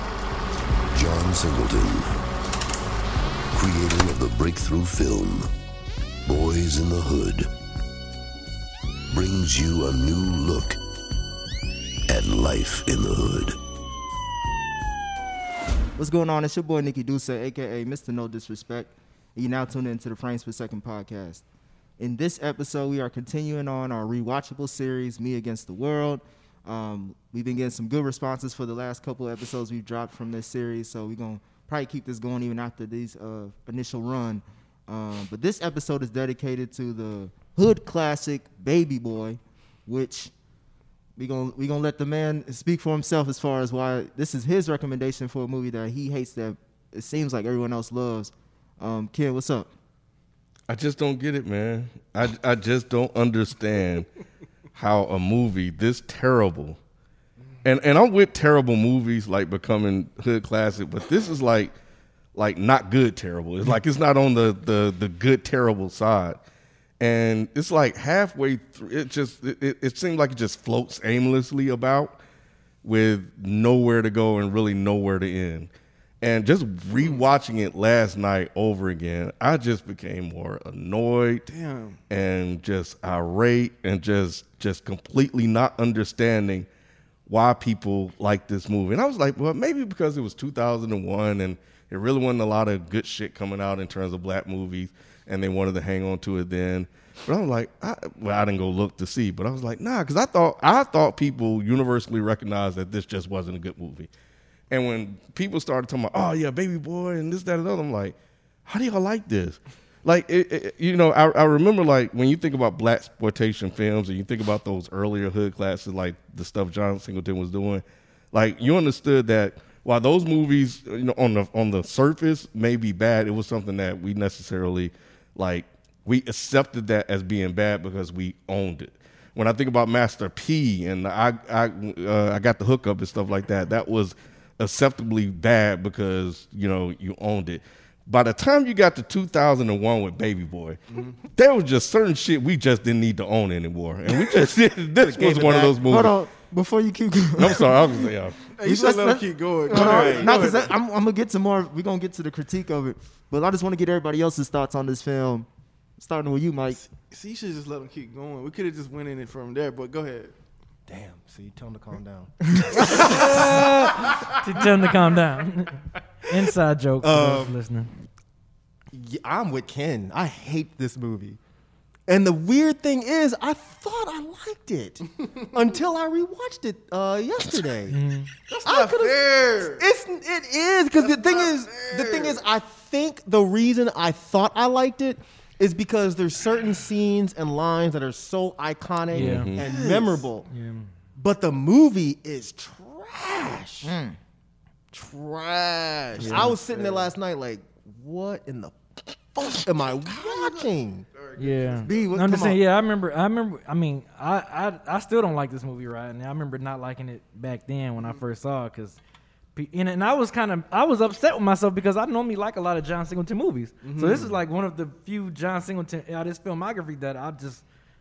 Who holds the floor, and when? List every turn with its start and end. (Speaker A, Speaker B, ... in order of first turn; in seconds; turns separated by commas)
Speaker A: 0.9-2.2, Speaker A: 3.5-5.5, Speaker A: 6.3-7.5, Speaker A: 9.1-10.8, Speaker A: 12.1-13.6, Speaker B: 16.0-21.4, Speaker B: 22.0-40.3, Speaker B: 41.2-49.7, Speaker C: 50.7-54.1, Speaker C: 54.7-56.8, Speaker C: 57.6-61.7, Speaker C: 62.4-66.4, Speaker C: 67.0-72.2, Speaker C: 72.8-75.7, Speaker C: 76.2-81.5, Speaker D: 77.0-77.2, Speaker D: 81.5-82.0, Speaker C: 82.1-86.7, Speaker C: 87.3-104.1, Speaker C: 104.7-146.2, Speaker D: 140.9-141.2, Speaker E: 144.3-145.8, Speaker B: 145.8-148.1, Speaker C: 147.4-148.5, Speaker D: 148.5-150.7, Speaker B: 148.6-155.5, Speaker E: 149.7-150.3, Speaker B: 156.0-156.8, Speaker D: 156.7-160.3, Speaker E: 160.9-163.6, Speaker B: 162.6-163.0, Speaker F: 162.8-167.9, Speaker D: 162.9-164.2, Speaker E: 167.0-167.6, Speaker E: 168.9-171.4, Speaker E: 172.1-178.0, Speaker D: 175.2-175.5, Speaker F: 177.9-178.3, Speaker D: 178.5-179.8, Speaker E: 178.7-190.5, Speaker D: 181.0-182.4, Speaker F: 189.1-189.5, Speaker C: 189.2-189.7, Speaker D: 189.6-190.2, Speaker F: 190.5-190.9, Speaker E: 191.2-193.9, Speaker B: 193.8-194.2, Speaker E: 194.9-198.8, Speaker F: 196.2-196.5, Speaker D: 196.2-197.1, Speaker E: 199.3-201.1, Speaker D: 200.0-202.3, Speaker F: 201.4-209.0, Speaker B: 201.9-202.6, Speaker F: 209.6-217.6, Speaker D: 213.8-214.4